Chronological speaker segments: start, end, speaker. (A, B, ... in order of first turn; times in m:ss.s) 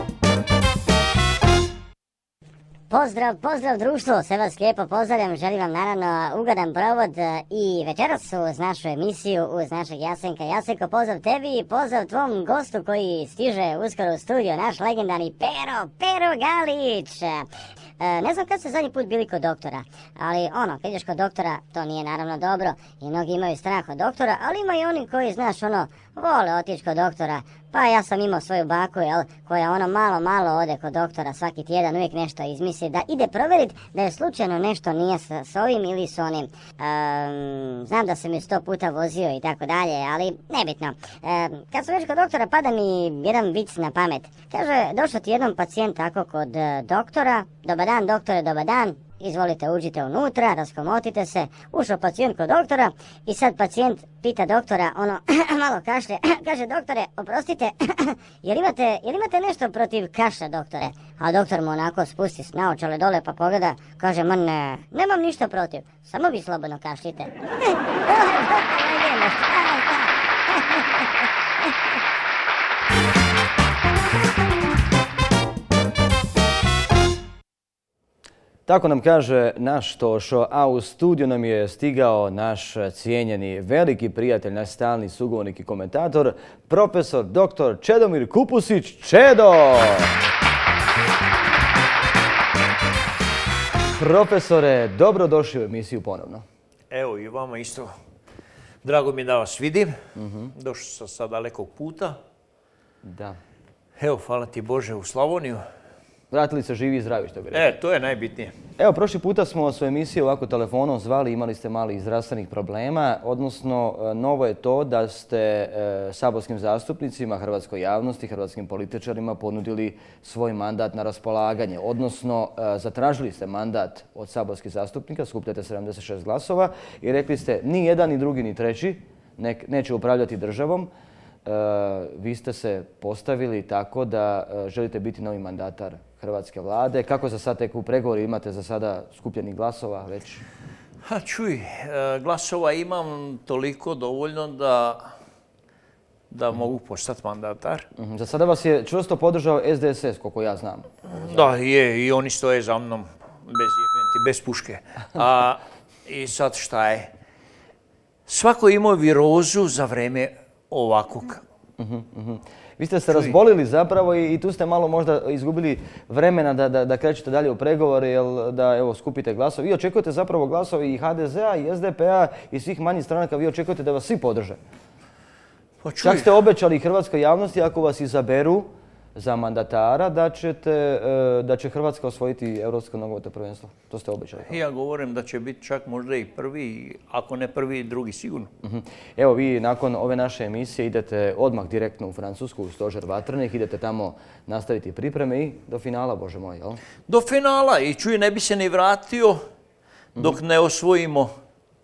0:02.9-0:17.5 A
0:18.0-1:11.0 A
1:18.7-1:30.1 B
1:33.9-1:36.4 B
1:36.9-1:37.9 C
1:38.8-1:40.0 C
1:40.2-1:40.5 B
1:40.5-1:42.2 C
1:43.0-1:43.4 B
1:44.0-1:45.6 C
1:46.3-1:47.7 B
1:47.5-1:48.5 C
1:48.8-2:10.9 B
2:11.4-2:20.4 B
2:21.0-2:25.2 C
2:26.3-2:27.9 C
2:28.0-2:31.5 B
2:31.1-2:37.1 C
2:38.3-2:41.4 C
2:41.8-2:54.6 B
2:43.1-2:43.3 C
2:55.8-2:56.4 C
2:56.0-3:04.6 B
3:04.5-3:08.5 C
3:08.6-3:16.8 B
3:17.1-3:19.4 C
3:20.2-3:21.3 C